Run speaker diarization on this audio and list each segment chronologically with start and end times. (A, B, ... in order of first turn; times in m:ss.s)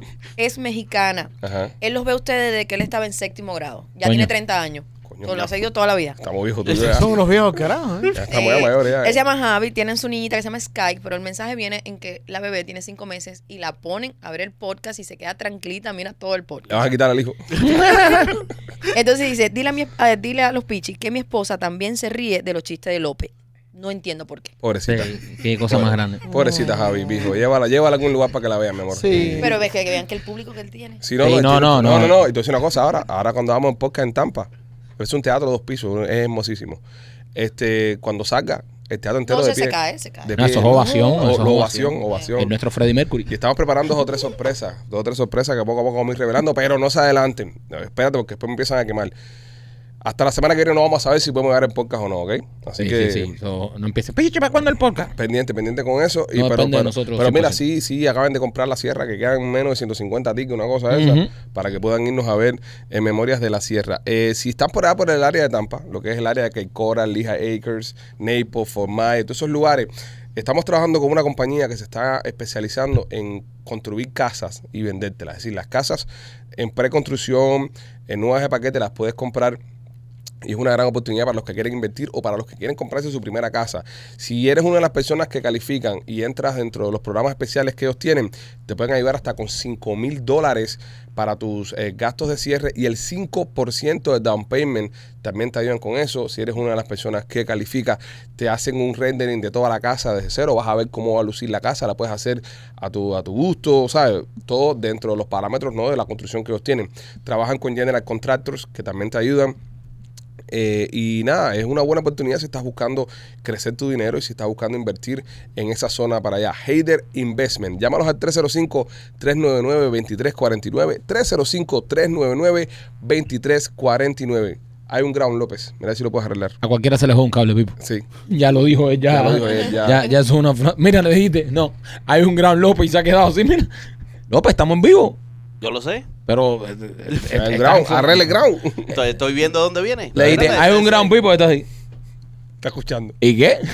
0:00.4-0:06.2 A
0:01.4-0:01.7 B
0:04.0-0:04.3 C
0:05.1-0:05.5 B
0:06.2-0:07.1 B
0:06.7-0:08.2 D
0:08.1-0:09.2 B
0:08.3-0:16.8 A
0:16.7-0:17.5 B
0:17.6-0:18.3 A
0:18.9-0:24.5 A
0:24.6-0:29.5 B
0:24.9-0:26.2 C
0:26.3-0:27.0 D
0:26.5-0:27.3 A
0:29.0-0:29.6 D
0:29.4-0:31.0 A
0:31.0-0:36.8 B
0:31.2-0:32.2 C
0:37.3-0:42.5 B
0:39.3-0:41.2 A
0:40.4-0:43.3 C
0:43.3-0:49.1 B
0:50.0-0:53.3 B
0:52.8-0:55.1 C
0:55.2-1:19.6 B
0:56.3-0:57.6 C
1:00.9-1:01.3 C
1:20.4-1:49.6 B
1:50.5-2:06.6 B
2:06.6-2:07.8 C
2:07.8-2:08.0 B
2:08.3-2:13.7 C
2:09.1-2:10.0 B
2:14.3-2:15.2 C
2:15.6-2:16.1 E
2:16.3-2:18.3 C
2:17.3-2:19.0 B
2:18.9-2:21.1 E
2:20.1-2:21.7 C
2:20.2-2:20.5 B
2:22.6-2:23.2 B
2:23.2-2:23.6 C